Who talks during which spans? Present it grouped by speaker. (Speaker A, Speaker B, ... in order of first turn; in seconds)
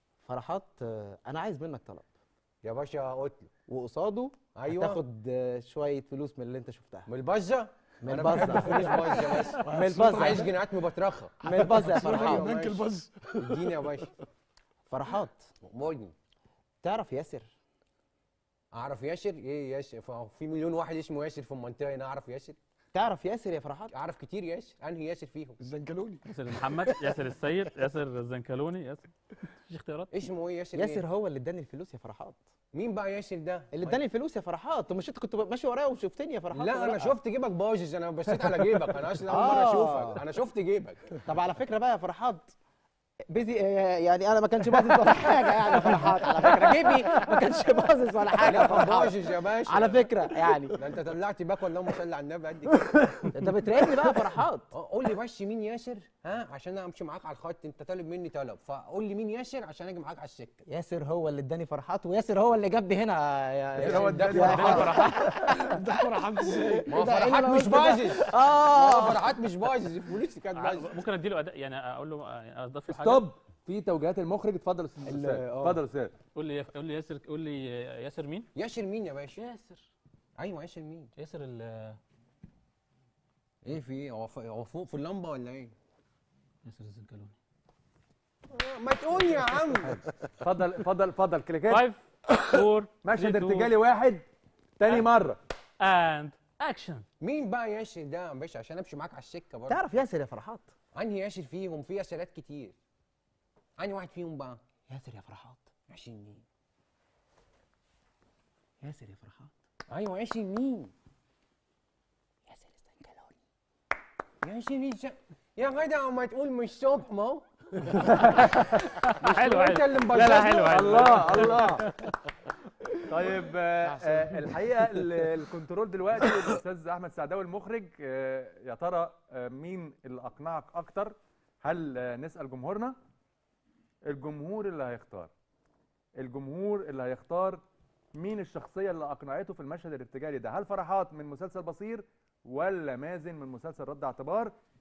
Speaker A: 0.2-2.1, 3.7-7.1, 8.0-10.6, 11.4-12.5, 14.9-15.5, 16.8-17.5, 22.9-23.9, 30.7-32.4, 33.7-37.1, 39.3-40.2, 41.2-42.5, 43.3-50.8, 53.2-54.7, 60.6-69.4, 75.0-75.8, 99.7-100.7, 104.9-105.7, 108.8-109.5, 112.5-113.3
Speaker B: 2.6-3.5, 4.5-5.0, 7.1-14.1, 15.6-16.1, 18.7-22.6, 23.9-25.7, 30.1-31.0, 32.7-34.0, 36.5-41.2, 48.4-50.1, 50.7-53.1, 54.7-60.6, 63.8-65.0, 66.9-71.0, 78.5-79.4, 80.4-81.1, 83.6-85.7, 88.5-90.0, 97.2-99.8, 100.9-102.8, 103.8-104.6, 105.9-106.4, 109.9-110.9, 114.4-118.2, 118.7-121.2
Speaker C: 8.8-10.3, 11.4-13.7, 25.6-27.1, 65.7-66.9
Speaker D: 26.3-30.1, 64.3-65.3, 70.5-73.2, 76.3-78.5, 79.4-79.9, 81.2-82.0, 86.6-87.3, 91.7-93.7, 95.8-97.0, 118.0-122.2
Speaker E: 63.8-65.1, 72.9-76.1, 90.3-91.8, 93.0-94.2, 94.8-95.4, 118.0-118.6, 120.3-121.9, 123.0-132.9, 134.1-135.3, 136.2-137.6, 138.2-144.5